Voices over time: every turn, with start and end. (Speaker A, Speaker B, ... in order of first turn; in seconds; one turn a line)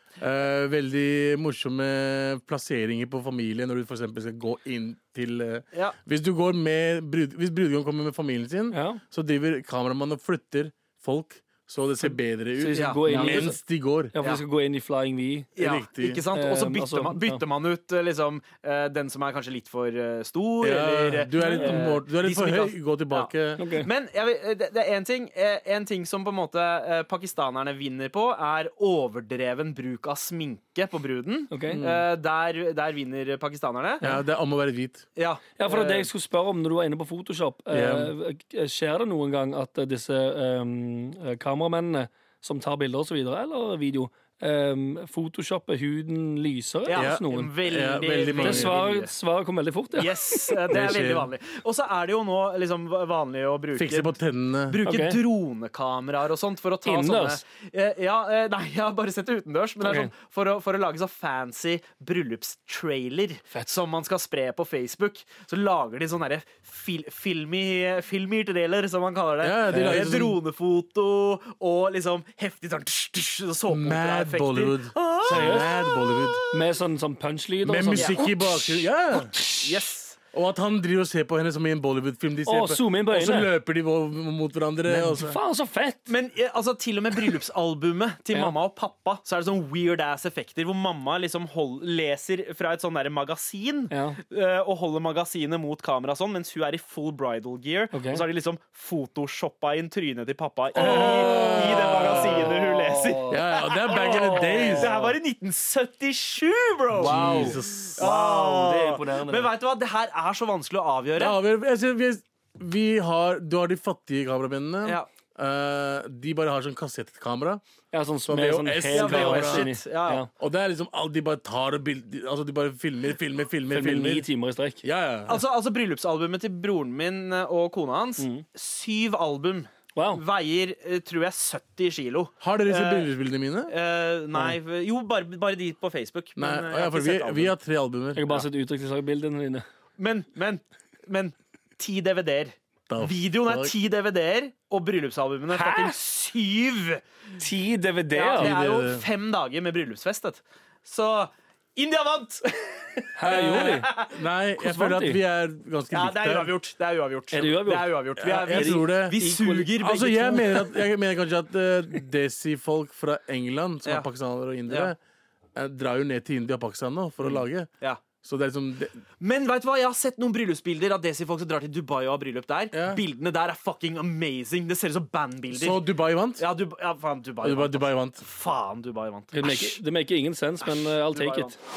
Speaker A: 0.2-14.1
Speaker B: 8.7-9.0
Speaker B: 12.6-13.6
Speaker C: 12.8-13.5
Speaker B: 14.1-15.5
Speaker C: 15.6-34.0
Speaker A: 15.6-16.2
Speaker B: 16.3-17.4
Speaker A: 20.6-23.6
Speaker B: 21.4-21.8
Speaker B: 23.6-23.9
Speaker B: 31.5-31.8
Speaker A: 31.7-32.1
Speaker A: 34.0-35.1
Speaker C: 35.2-36.1
Speaker B: 35.6-47.5
Speaker A: 37.7-38.1
Speaker C: 46.9-49.1
Speaker A: 47.0-48.8
Speaker B: 48.4-50.6
Speaker C: 50.0-54.2
Speaker A: 50.7-51.3
Speaker A: 53.8-54.8
Speaker C: 54.7-76.4
Speaker B: 54.9-55.2
Speaker B: 56.9-57.4
Speaker B: 59.8-60.1
Speaker A: 69.4-70.4
Speaker B: 69.7-70.2
Speaker A: 73.7-76.4
Speaker B: 75.2-75.7
Speaker B: 76.5-78.3
Speaker A: 77.6-79.4
Speaker C: 78.0-80.2
Speaker A: 80.3-85.4
Speaker B: 82.5-83.5
Speaker B: 84.9-86.1
Speaker C: 86.1-111.4
Speaker B: 93.9-94.2
Speaker B: 97.9-98.2
Speaker B: 100.8-105.2
Speaker A: 100.8-102.5
Speaker A: 103.3-104.9
Speaker A: 107.0-108.0
Speaker B: 107.0-109.5
Speaker A: 111.2-117.6
Speaker B: 117.9-120.3
Speaker A: 118.3-119.7
Speaker C: 118.9-120.2
Speaker A: 120.4-124.3
Speaker B: 123.7-124.8
Speaker A: 124.8-125.4
Speaker C: 125.3-133.1
Speaker B: 128.2-128.4
Speaker B: 129.9-130.2
Speaker A: 132.4-133.7
Speaker C: 133.7-137.5
Speaker A: 136.4-138.3
Speaker B: 138.2-139.7
Speaker C: 140.0-147.0
Speaker A: 142.9-143.7
Speaker B: 145.5-145.9
Speaker B: 147.4-148.5
Speaker C: 148.1-154.2
Speaker A: 148.4-149.1
Speaker B: 153.2-153.9
Speaker A: 153.3-156.5
Speaker B: 154.6-155.2
Speaker C: 155.9-160.8
Speaker B: 157.3-157.9
Speaker A: 158.2-165.0
Speaker B: 158.5-159.4
Speaker C: 164.7-164.9
Speaker A: 165.6-167.7
Speaker C: 167.2-168.0
Speaker A: 168.2-169.0
Speaker C: 169.2-179.8
Speaker A: 172.7-173.0
Speaker A: 175.5-176.4
Speaker A: 177.4-178.2
Speaker B: 179.3-181.6
Speaker C: 180.6-181.6